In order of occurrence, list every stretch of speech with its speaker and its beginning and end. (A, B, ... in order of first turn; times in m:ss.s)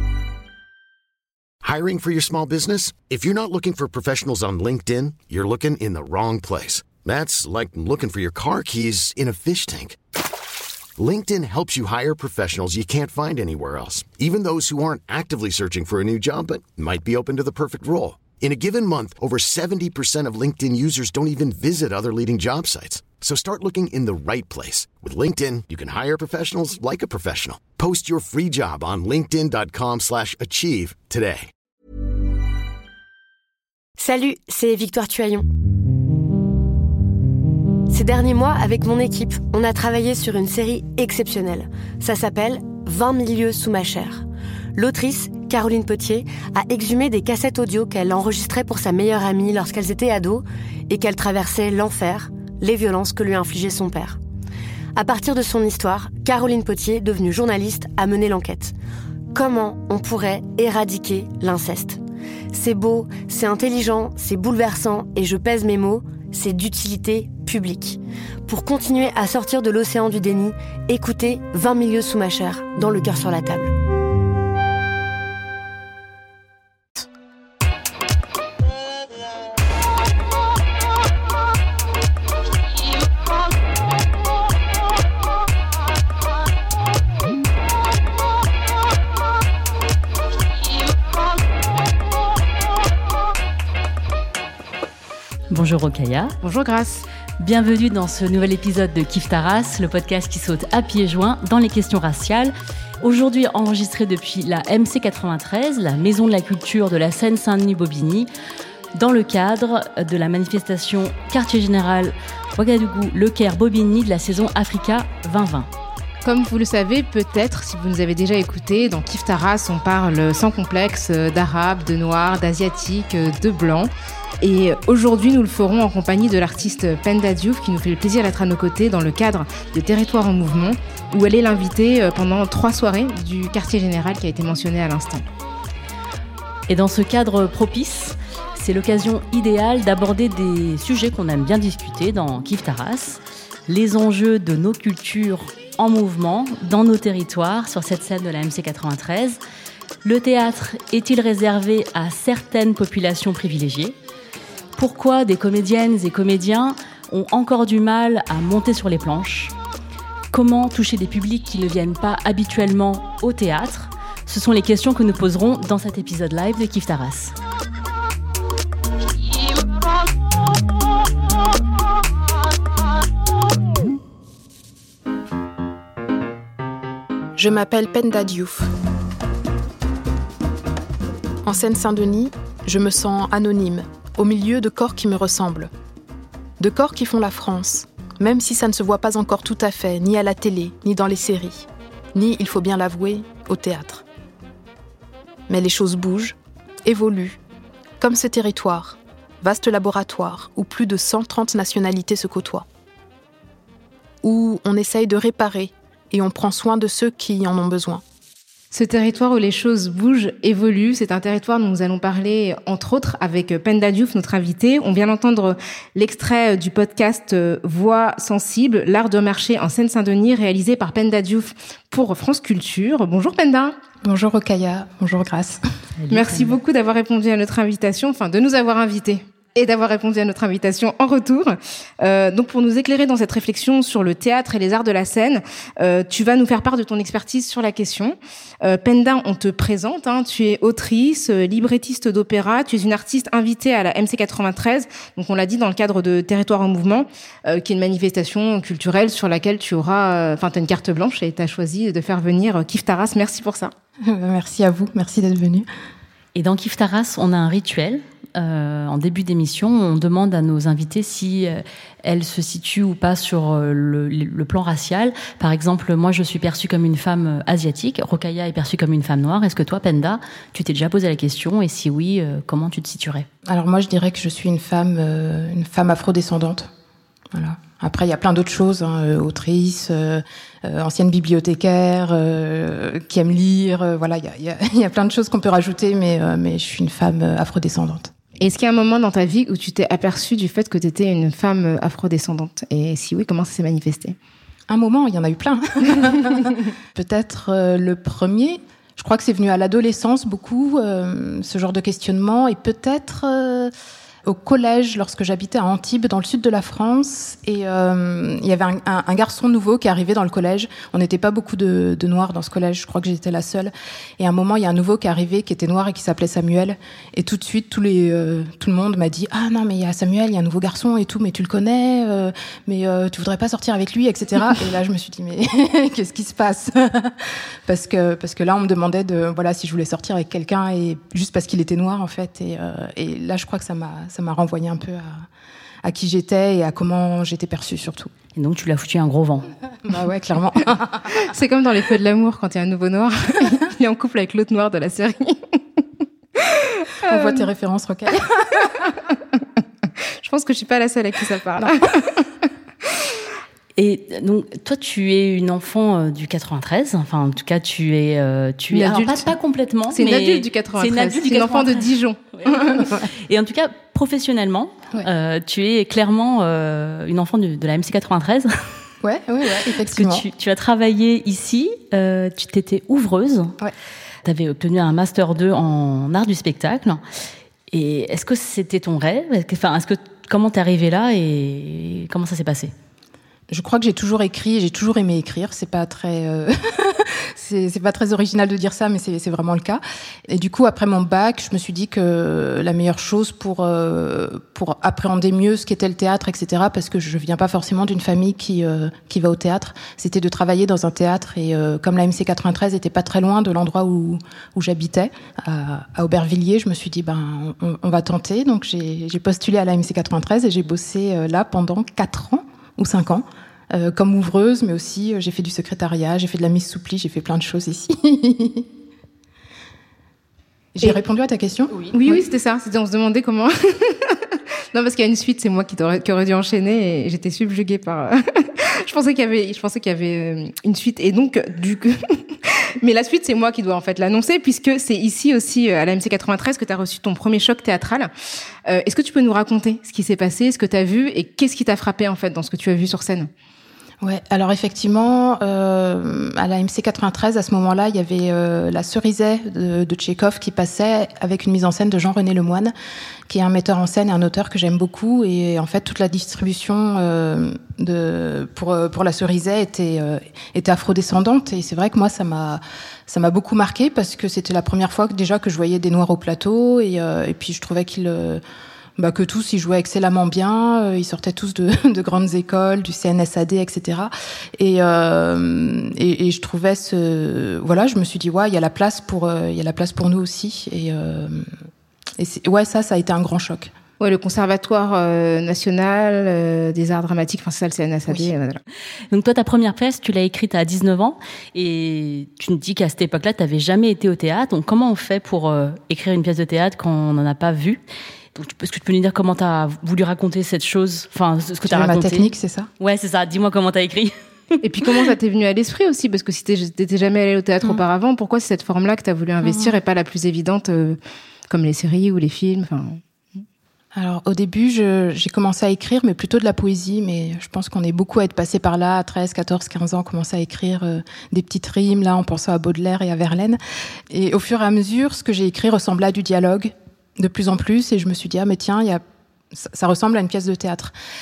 0:01.6-0:10.0 A
0:11.0-0:31.5 A
0:34.0-0:35.5 B
0:37.9-0:44.2 B
0:44.7-0:54.2 B
0:54.9-0:58.7 B
0:59.3-1:02.0 B
1:02.5-1:13.7 B
1:35.5-1:36.3 C
1:36.4-1:37.0 D
1:37.4-1:48.3 C
1:48.9-1:55.7 C
1:56.2-2:15.2 D
2:16.7-2:29.4 C
2:30.0-2:34.0 C
2:34.8-2:39.5 C
2:40.3-2:47.3 C
2:57.4-2:58.7 E
3:01.4-3:05.7 E
3:06.6-3:14.0 E
3:15.5-3:17.4 E
3:18.0-3:22.7 E
3:24.2-3:28.0 E
3:28.7-3:43.7 D
3:44.0-3:45.6 E
3:46.0-3:46.6 C
3:46.1-4:13.7 D
4:14.0-4:15.7 E
4:16.3-4:33.3 C
4:33.5-4:36.7 E
4:37.3-4:48.1 E
4:48.4-4:54.2 D
4:54.7-5:03.7 E
5:04.2-5:35.2 E
5:35.8-5:38.1 E
5:38.3-5:39.5 C
5:39.8-5:41.2 E
5:41.1-5:45.8 D
5:46.4-5:47.4 D
5:47.0-5:48.7 E
5:50.0-5:52.2 D
5:53.8-6:01.8 C
5:58.7-5:59.3 D
5:59.9-6:02.8 D
6:02.3-6:08.5 C
6:09.0-6:10.2 E
6:09.9-6:13.5 C
6:14.2-6:17.0 C
6:17.7-6:22.7 C
6:23.5-6:58.6 E
7:00.7-7:02.2 E
7:01.9-7:18.1 D
7:18.7-7:23.3 D
7:24.0-7:32.7 E
7:33.3-7:48.4 E
7:49.0-8:01.5 E
8:02.2-8:03.7 E
8:04.0-8:08.6 D
8:09.1-8:17.8 C
8:18.3-8:24.1 C
8:21.6-8:22.7 E
8:24.6-8:31.0 D
8:29.4-8:29.7 E
8:31.5-8:33.0 D
8:34.0-8:50.9 E